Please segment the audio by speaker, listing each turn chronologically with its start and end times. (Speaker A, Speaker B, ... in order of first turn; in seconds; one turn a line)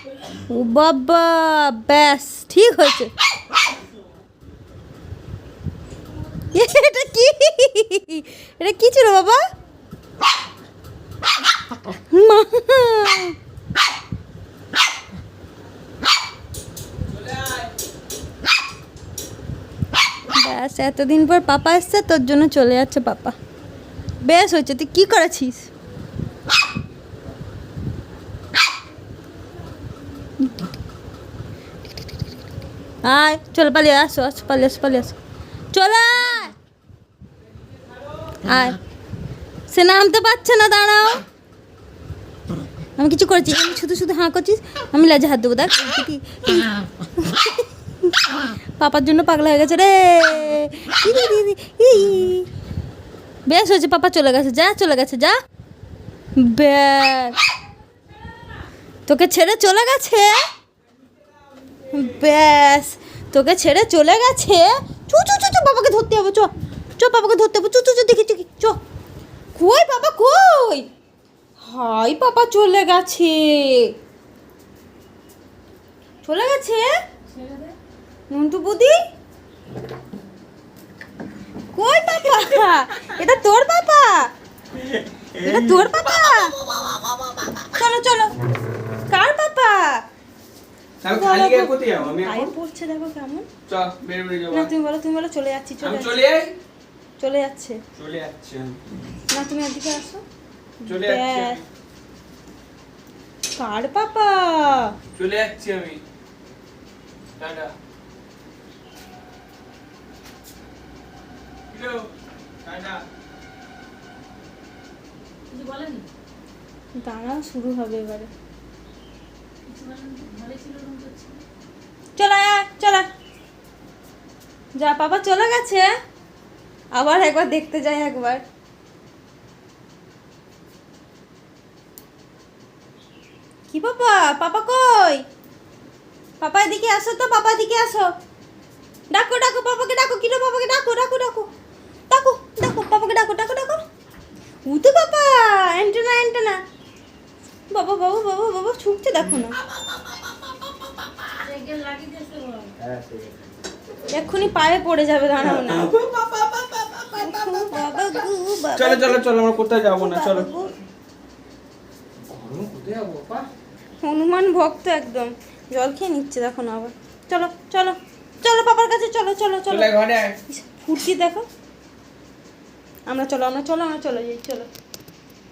Speaker A: 0.5-3.1
Speaker A: 6.5-9.4
Speaker A: 11.9-13.4
Speaker A: 20.3-23.4
Speaker A: 24.2-25.7
Speaker A: 33.0-35.2
Speaker A: 35.7-36.5
Speaker A: 38.5-38.8
Speaker A: 39.7-41.2
Speaker A: 43.0-52.5
Speaker A: 53.5-55.4
Speaker A: 56.4-57.4
Speaker A: 59.1-60.3
Speaker A: 61.9-68.8
Speaker A: 69.5-70.9
Speaker A: 71.6-73.9
Speaker A: 76.2-76.9
Speaker B: 77.3-77.7
Speaker A: 78.3-79.0
Speaker A: 81.8-84.3
Speaker C: 85.2-85.9
Speaker A: 85.4-86.6
Speaker A: 87.8-88.3
Speaker A: 89.1-90.0
Speaker C: 91.0-92.5
Speaker A: 91.1-93.5
Speaker C: 93.7-94.7
Speaker A: 94.5-96.2
Speaker C: 95.8-96.5
Speaker A: 97.2-97.8
Speaker C: 98.0-98.8
Speaker A: 99.3-100.2
Speaker A: 100.8-101.6
Speaker C: 100.9-101.6
Speaker A: 103.6-104.9
Speaker C: 105.2-106.0
Speaker C: 107.4-107.7
Speaker C: 111.7-112.1
Speaker C: 112.6-113.0
Speaker B: 115.5-116.1
Speaker A: 117.0-118.3
Speaker B: 119.7-121.4
Speaker A: 122.2-123.1
Speaker A: 124.8-125.9
Speaker A: 127.0-128.4
Speaker A: 133.7-135.2
Speaker A: 136.4-138.1
Speaker A: 139.1-141.5
Speaker A: 142.1-143.8
Speaker A: 144.7-146.6
Speaker A: 147.7-149.6
Speaker B: 151.4-152.8
Speaker C: 152.8-153.3
Speaker A: 154.1-155.9
Speaker C: 155.4-160.5
Speaker A: 157.1-159.2
Speaker A: 159.9-160.7
Speaker C: 162.3-163.5
Speaker A: 164.0-169.9
Speaker C: 169.7-170.4
Speaker A: 170.5-171.5
Speaker A: 173.1-174.7